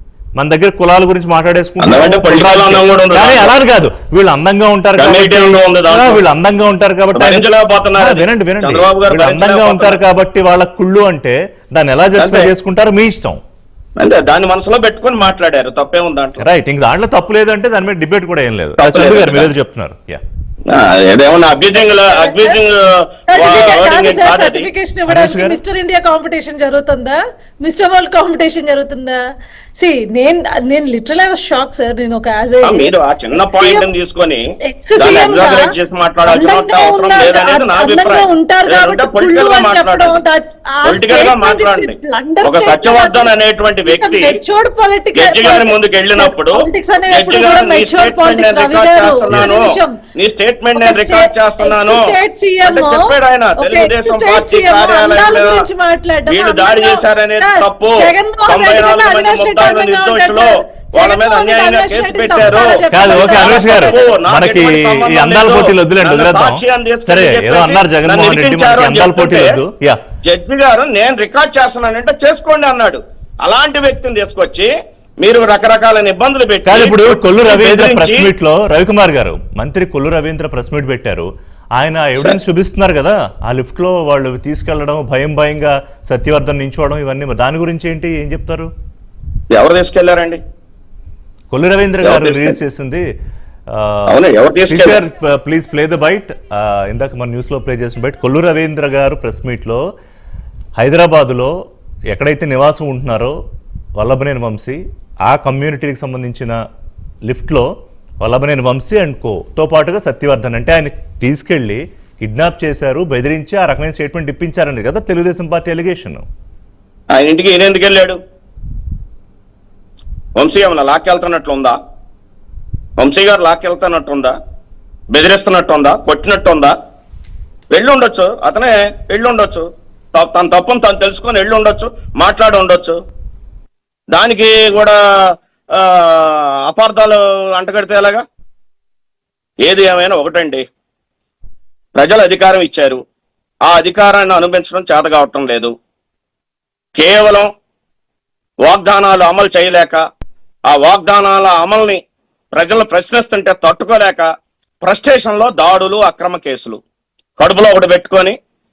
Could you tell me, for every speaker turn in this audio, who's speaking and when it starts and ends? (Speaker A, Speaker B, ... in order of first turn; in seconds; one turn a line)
Speaker A: 0.3-13.4
Speaker B: 1.8-3.5
Speaker B: 5.0-6.2
Speaker B: 7.1-10.0
Speaker B: 12.2-12.5
Speaker B: 14.0-16.4
Speaker A: 16.4-20.2
Speaker B: 18.8-19.5
Speaker B: 20.7-24.7
Speaker C: 21.7-22.6
Speaker C: 23.3-29.2
Speaker A: 25.1-25.6
Speaker C: 29.8-33.9
Speaker B: 32.6-34.4
Speaker C: 34.7-35.7
Speaker B: 35.0-40.2
Speaker C: 36.3-43.3
Speaker B: 40.8-44.4
Speaker C: 43.9-50.0
Speaker B: 45.1-55.7
Speaker C: 50.7-64.1
Speaker B: 56.3-69.6
Speaker A: 62.4-70.0
Speaker B: 70.2-78.3
Speaker A: 76.6-88.7
Speaker B: 89.5-90.4
Speaker A: 91.5-93.0
Speaker B: 92.0-92.6
Speaker A: 93.7-94.1
Speaker B: 94.1-95.0
Speaker A: 94.7-99.8
Speaker A: 100.8-101.5
Speaker A: 102.1-103.3
Speaker A: 104.0-106.6
Speaker A: 107.3-107.7
Speaker A: 108.2-116.2
Speaker B: 117.1-118.2
Speaker B: 120.3-121.8
Speaker B: 123.0-124.3
Speaker B: 125.1-126.7
Speaker B: 127.7-133.0
Speaker B: 134.1-135.0
Speaker B: 135.7-138.2
Speaker B: 139.6-140.6
Speaker B: 141.9-143.0
Speaker B: 143.7-145.7
Speaker B: 146.9-147.5
Speaker B: 148.6-150.0
Speaker B: 150.7-152.0
Speaker B: 152.5-154.3
Speaker B: 154.8-156.8
Speaker B: 157.4-158.4